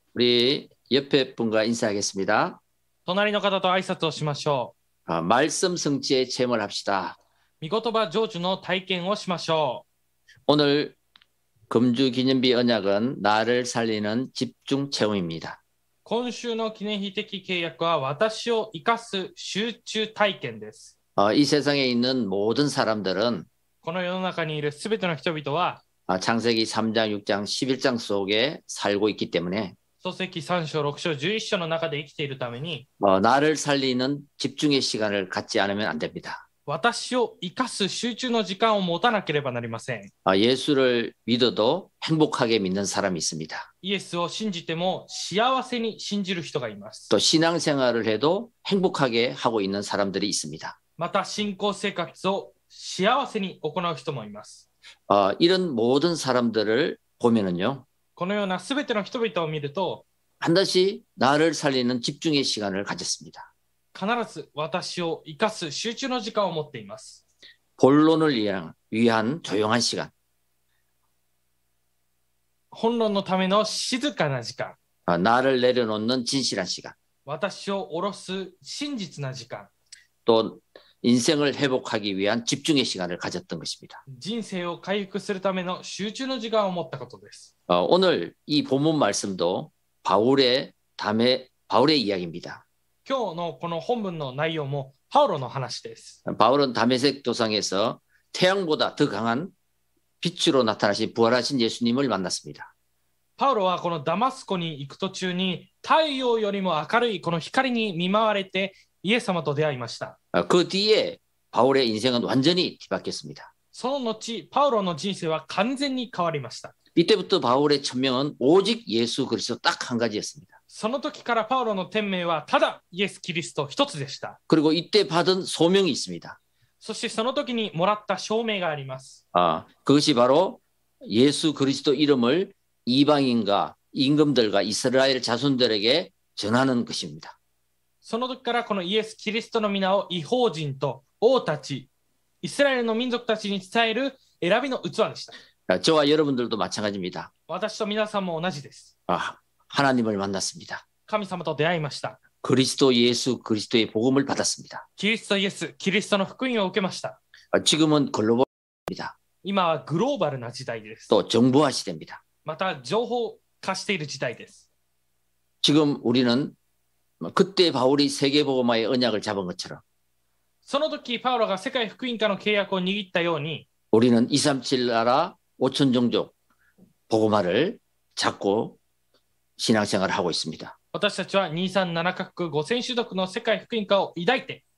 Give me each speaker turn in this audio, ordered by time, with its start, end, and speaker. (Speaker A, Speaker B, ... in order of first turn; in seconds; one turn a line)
Speaker A: 0.1-2.6
Speaker B: 3.0-4.7
Speaker A: 5.1-7.2
Speaker B: 7.6-9.8
Speaker A: 10.5-11.0
Speaker A: 11.7-15.6
Speaker B: 16.0-20.9
Speaker A: 21.1-23.5
Speaker B: 23.8-25.8
Speaker A: 26.1-29.8
Speaker B: 30.0-32.9
Speaker A: 33.0-36.4
Speaker B: 36.6-40.1
Speaker A: 40.2-43.7
Speaker B: 43.8-47.1
Speaker A: 47.1-50.8
Speaker B: 51.0-54.6
Speaker A: 55.1-57.9
Speaker B: 58.1-60.0
Speaker A: 60.4-63.5
Speaker B: 63.9-67.2
Speaker A: 67.8-70.1
Speaker B: 72.7-74.8
Speaker A: 75.1-77.0
Speaker B: 77.2-79.7
Speaker A: 80.2-84.0
Speaker B: 84.1-87.5
Speaker A: 87.7-92.6
Speaker B: 93.0-96.2
Speaker A: 96.2-99.5
Speaker A: 100.2-102.7
Speaker B: 103.4-110.2
Speaker A: 110.3-113.5
Speaker B: 113.7-116.7
Speaker A: 117.0-120.5
Speaker B: 120.7-124.4
Speaker A: 124.5-126.4
Speaker B: 126.8-129.2
Speaker A: 129.3-137.3
Speaker B: 138.0-141.9
Speaker B: 142.4-145.3
Speaker A: 145.7-147.3
Speaker B: 147.5-148.9
Speaker A: 149.1-150.8
Speaker B: 151.1-152.2
Speaker A: 152.4-154.8
Speaker B: 155.0-157.2
Speaker A: 157.5-159.1
Speaker B: 159.4-161.1
Speaker A: 161.1-162.2
Speaker B: 162.4-164.6
Speaker A: 165.6-166.6
Speaker A: 167.2-169.8
Speaker B: 170.6-173.7
Speaker A: 173.9-176.3
Speaker A: 177.1-178.8
Speaker A: 179.6-180.7
Speaker B: 180.9-184.6